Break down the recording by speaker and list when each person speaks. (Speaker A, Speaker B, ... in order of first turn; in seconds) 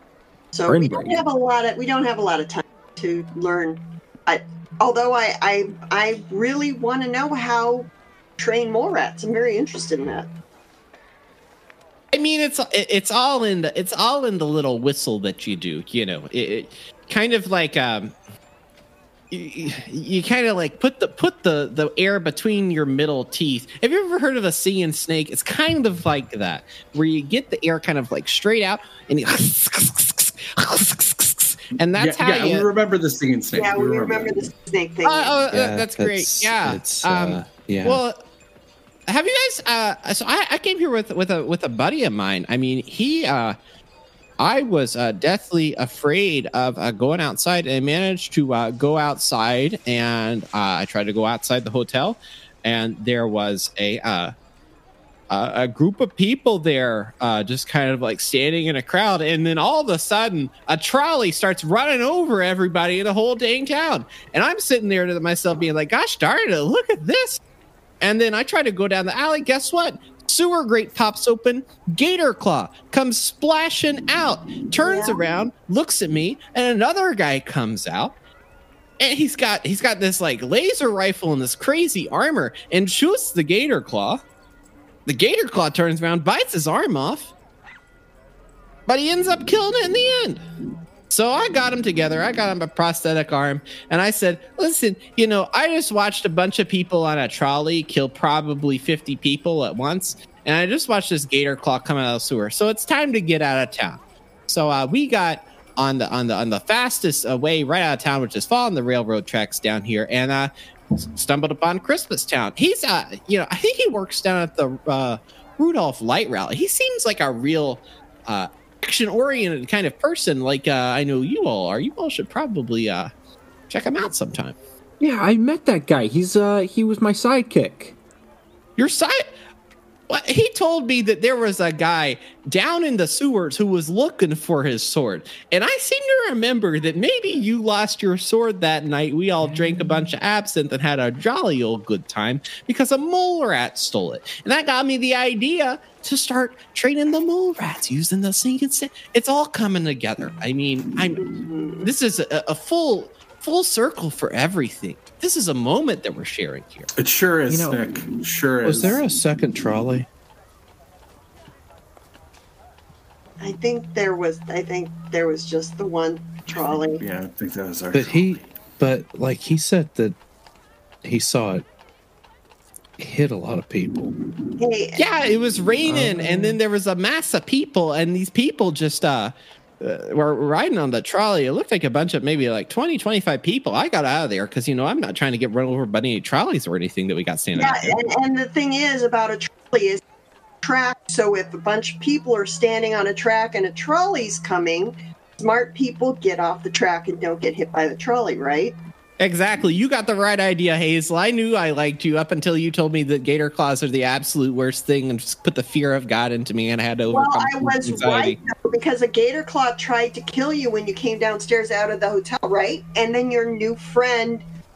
Speaker A: 0.5-10.3, 33.5-35.4, 74.8-75.2, 151.2-151.9, 163.4-167.0, 174.6-175.0, 187.6-190.0, 190.6-198.8, 207.1-214.4
Speaker B: 0.7-1.2, 125.0-128.0, 157.5-157.8
Speaker C: 12.1-18.1, 19.3-32.7, 35.0-38.2, 39.1-43.6, 44.4-54.3, 55.3-67.4, 68.0-78.2, 79.0-84.2, 85.1-87.3, 88.9-90.5, 91.1-123.1, 123.7-124.6, 128.8-129.3, 130.1-151.2, 151.8-156.9, 175.0-188.0, 199.2-208.4
Speaker D: 32.0-34.5, 157.0-159.0, 166.5-168.5
Speaker E: 35.5-38.0, 158.6-160.1, 167.9-170.2, 171.0-171.6, 173.0-174.1